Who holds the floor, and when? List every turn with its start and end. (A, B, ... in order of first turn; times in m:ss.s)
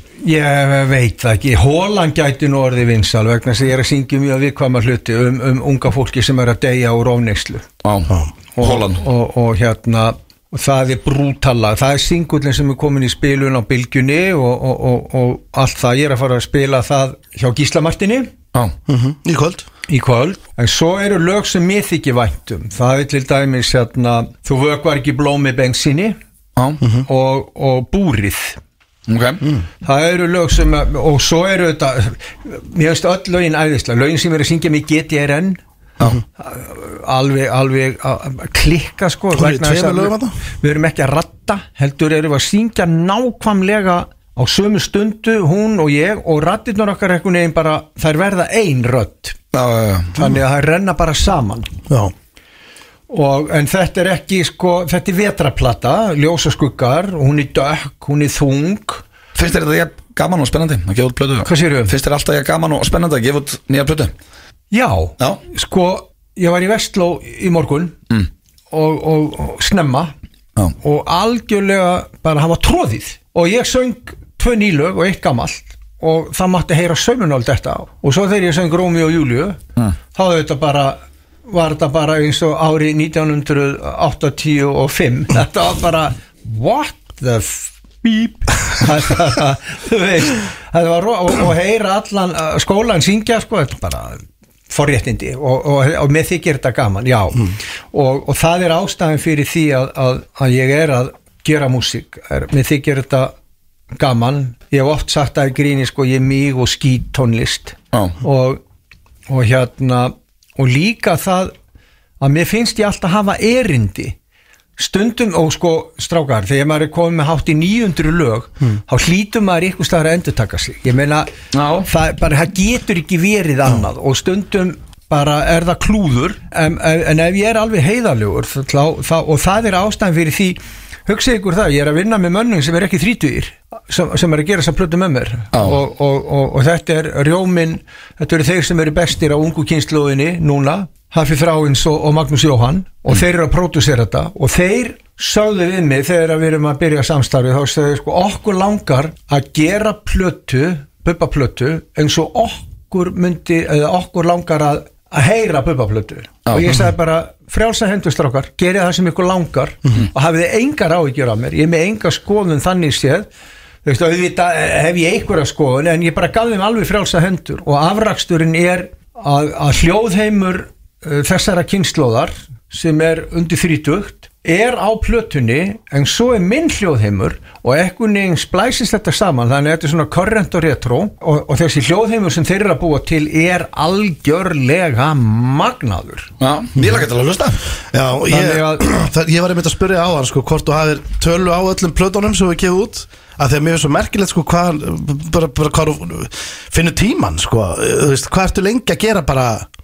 0:00.2-0:07.7 A
0:07.8-0:09.0 B
0:08.6-0:18.3 A
0:18.9-0:19.6 C
0:19.9-0:26.2 A
0:26.6-0:26.8 B
0:26.8-0:27.1 C
0:27.1-0:28.6 A
0:29.1-0:29.4 B
0:29.8-0:35.6 A
0:36.4-0:49.4 A
0:39.3-0:40.3 C
0:49.5-0:50.1 B
0:50.1-0:51.7 A
0:53.1-0:59.0 A
0:59.3-1:04.1 B
1:01.4-1:01.9 A
1:04.7-1:08.0 A
1:08.7-1:10.1 A
1:10.8-1:19.6 A
1:20.1-1:43.3 A
1:44.0-1:48.6 A
1:49.3-1:51.5 A
1:52.2-1:54.2 A
1:54.8-2:01.3 A
2:01.5-2:01.9 B
2:01.8-2:43.3 A
2:15.5-2:15.8 B
2:36.5-2:36.8 B
2:43.8-3:06.3 A
3:06.4-3:07.6 B
3:07.9-3:19.7 C
3:08.3-3:08.9 A